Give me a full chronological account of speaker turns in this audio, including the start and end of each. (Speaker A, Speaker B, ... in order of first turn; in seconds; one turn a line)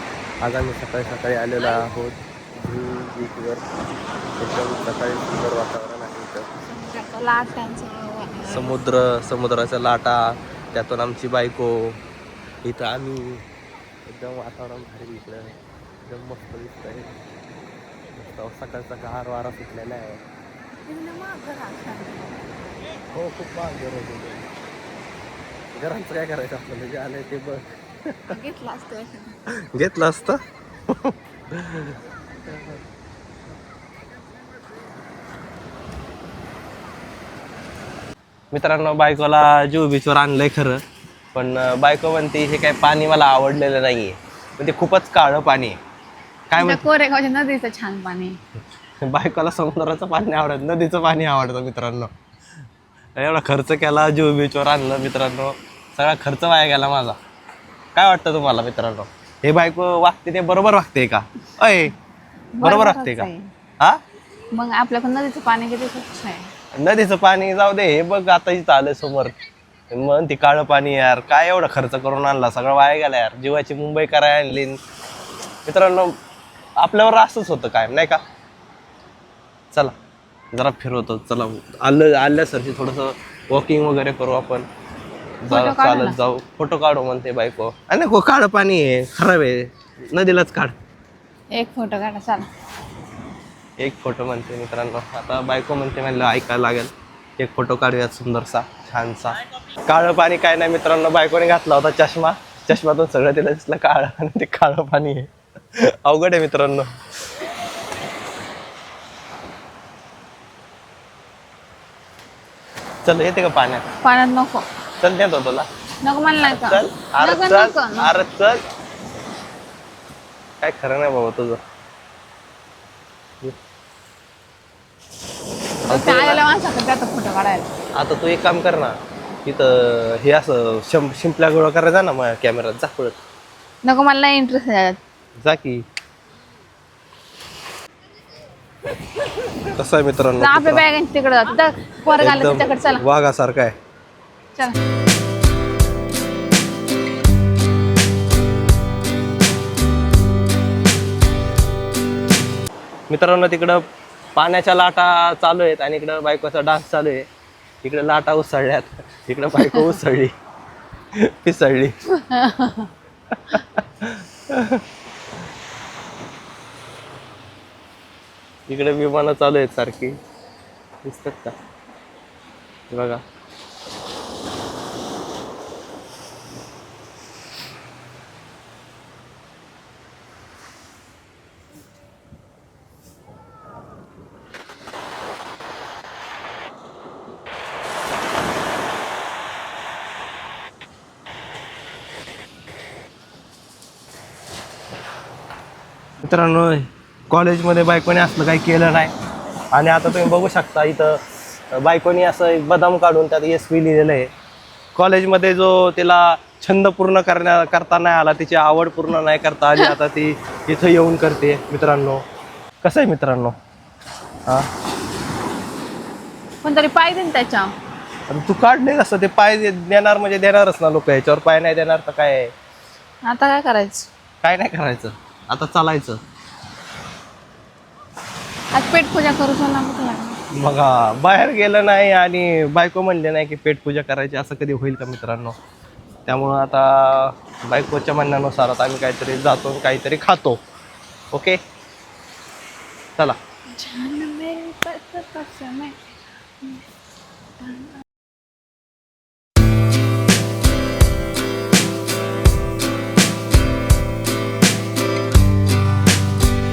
Speaker A: 0.4-3.6
Speaker A: 4.4-6.5
Speaker B: 6.7-8.7
Speaker A: 8.4-12.0
Speaker A: 12.6-13.4
Speaker A: 14.1-17.2
Speaker A: 18.1-20.2
Speaker B: 20.9-22.4
Speaker A: 23.1-24.5
Speaker A: 25.7-28.4
Speaker B: 28.3-29.4
Speaker A: 29.7-32.8
Speaker A: 38.5-40.8
Speaker A: 41.3-45.8
Speaker A: 46.5-46.8
Speaker B: 46.6-48.4
Speaker A: 49.0-52.1
Speaker A: 53.1-57.1
Speaker A: 57.9-61.9
Speaker B: 62.5-63.5
Speaker A: 62.6-63.3
Speaker B: 64.5-66.5
Speaker A: 66.7-69.3
Speaker A: 69.9-74.8
Speaker A: 75.7-76.1
Speaker A: 76.8-78.2
Speaker A: 80.5-84.7
Speaker A: 85.4-90.7
Speaker B: 85.5-86.2
Speaker B: 91.5-92.5
Speaker A: 93.8-106.9
Speaker A: 113.0-113.8
Speaker B: 114.0-114.7
Speaker A: 115.0-115.7
Speaker B: 116.0-118.1
Speaker A: 116.4-118.6
Speaker A: 120.6-121.6
Speaker B: 125.8-127.7
Speaker A: 125.9-126.4
Speaker A: 128.0-133.2
Speaker B: 133.8-135.0
Speaker A: 135.4-135.8
Speaker A: 139.6-140.8
Speaker B: 140.4-143.0
Speaker A: 142.2-143.7
Speaker A: 153.1-153.8
Speaker A: 154.3-157.3
Speaker A: 157.8-160.3
Speaker A: 161.2-161.9
Speaker B: 162.1-162.9
Speaker A: 163.4-164.8
Speaker A: 168.7-170.2
Speaker A: 171.0-171.6
Speaker A: 172.9-173.2
Speaker A: 196.2-199.1
Speaker A: 199.7-201.2
Speaker A: 201.7-204.3
Speaker A: 204.9-212.2
Speaker A: 212.8-213.6
Speaker B: 216.6-217.7
Speaker A: 218.3-222.5
Speaker B: 223.2-224.1
Speaker A: 224.4-226.2
Speaker B: 228.7-230.4
Speaker A: 230.5-235.6
Speaker A: 236.2-240.6
Speaker A: 241.3-241.6
Speaker B: 243.7-246.0
Speaker B: 247.6-248.0